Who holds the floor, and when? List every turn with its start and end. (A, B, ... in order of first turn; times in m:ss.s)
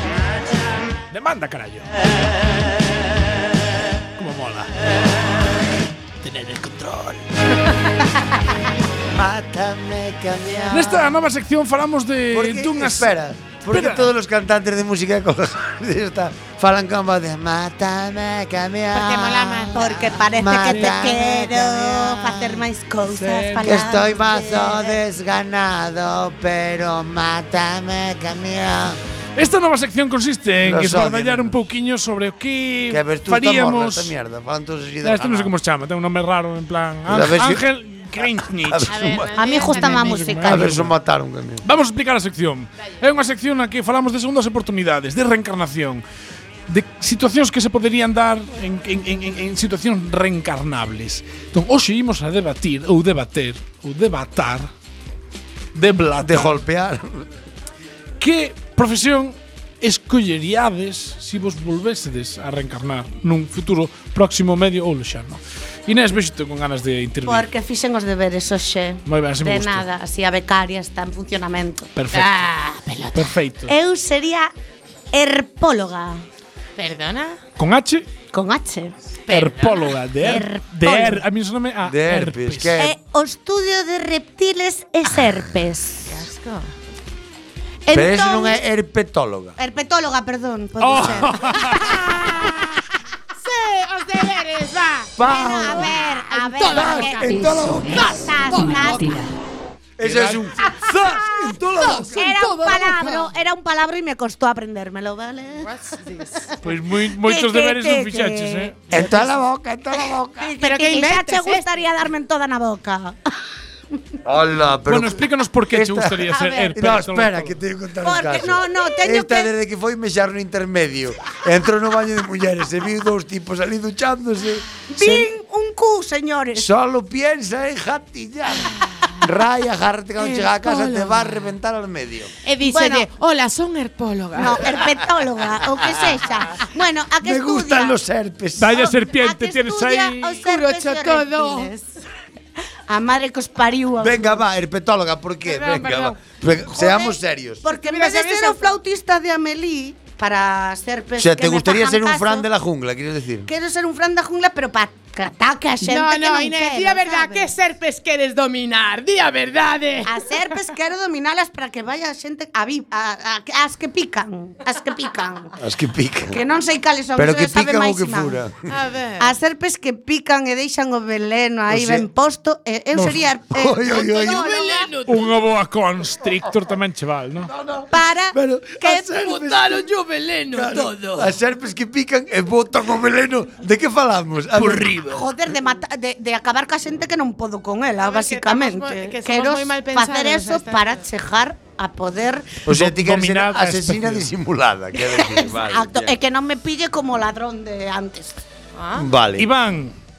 0:01.1-0:01.9 A
0:04.2-0:04.7 A
0:06.2-0:07.2 A
0:09.1-0:11.2 B
0:10.7-0:13.1 A
0:12.3-0:22.7 B
0:13.7-0:14.1 A
0:18.9-0:19.8 C
0:19.7-0:25.0 D
0:20.7-0:21.1 A
0:23.1-0:24.0 A
0:23.6-0:29.0 B
0:29.4-0:34.1 A
0:30.6-0:31.6 B
0:32.9-0:35.5 B
0:35.0-0:39.0 A
0:37.1-0:39.3 B
0:38.9-0:40.4 C
0:39.3-0:40.9 D
0:39.7-0:40.9 A
0:40.4-0:41.6 B
0:41.6-0:46.0 A
0:46.7-0:54.7 A
0:55.7-0:56.6 A
0:56.2-0:57.3 B
0:58.2-1:07.5 A
1:07.2-1:11.9 D
1:09.0-1:09.8 A
1:11.9-1:12.4 A
1:12.1-1:12.9 C
1:12.8-1:14.5 D
1:13.1-1:13.7 A
1:15.1-1:16.2 D
1:16.8-1:17.4 C
1:17.6-1:18.1 A
1:18.3-1:19.0 D
1:19.3-1:20.0 C
1:19.3-1:22.8 A
1:20.2-1:21.2 D
1:21.8-1:23.0 B
1:22.8-1:26.2 D
1:26.1-1:26.7 C
1:27.8-1:28.6 D
1:27.9-1:29.6 B
1:29.6-1:32.6 D
1:30.8-1:32.0 A
1:33.4-1:38.7 C
1:35.2-1:35.8 A
1:35.2-1:39.2 D
1:36.7-1:38.6 B
1:36.7-1:37.1 A
1:38.6-1:39.0 A
1:40.0-1:42.6 B
1:40.0-1:41.1 A
1:41.8-1:43.2 A
1:42.0-1:45.7 D
1:45.6-1:46.6 C
1:46.6-1:49.3 A
1:47.1-1:49.1 D
1:48.9-1:50.6 B
1:50.0-1:53.2 D
1:50.6-1:51.7 C
1:54.2-2:05.2 B
1:54.9-1:57.6 A
1:56.4-1:56.7 D
1:58.0-1:59.5 D
2:04.9-2:06.7 D
2:06.5-2:12.3 B
2:10.2-2:11.3 C
2:12.4-2:14.9 C
2:12.6-2:13.0 D
2:14.4-2:18.0 D
2:17.2-2:18.9 B
2:18.6-2:20.4 A
2:18.7-2:21.9 D
2:20.4-2:21.7 C
2:22.9-2:24.4 D
2:24.0-2:27.6 B
2:25.4-2:26.2 C
2:26.7-2:32.4 D
2:27.7-2:28.8 C
2:31.2-2:33.5 B
2:33.4-2:37.5 D
2:35.8-2:40.2 C
2:40.0-2:45.6 D
2:45.6-2:46.4 B
2:46.3-2:48.4 D
2:47.1-2:48.7 B
2:48.7-2:49.3 C
2:49.2-2:54.9 D
2:51.7-2:52.1 B
2:53.5-2:54.7 B
2:53.9-2:55.3 C
2:55.0-2:57.5 A
2:57.5-2:57.9 C
2:57.9-2:59.2 D
2:58.3-2:59.9 B
2:59.1-3:01.2 C
3:00.5-3:05.1 B
3:05.1-3:12.6 D
3:08.0-3:11.0 C
3:12.6-3:16.2 B
3:12.7-3:14.3 A
3:15.0-3:18.3 D
3:18.7-3:19.1 C
3:19.0-3:19.5 B
3:19.4-3:20.0 A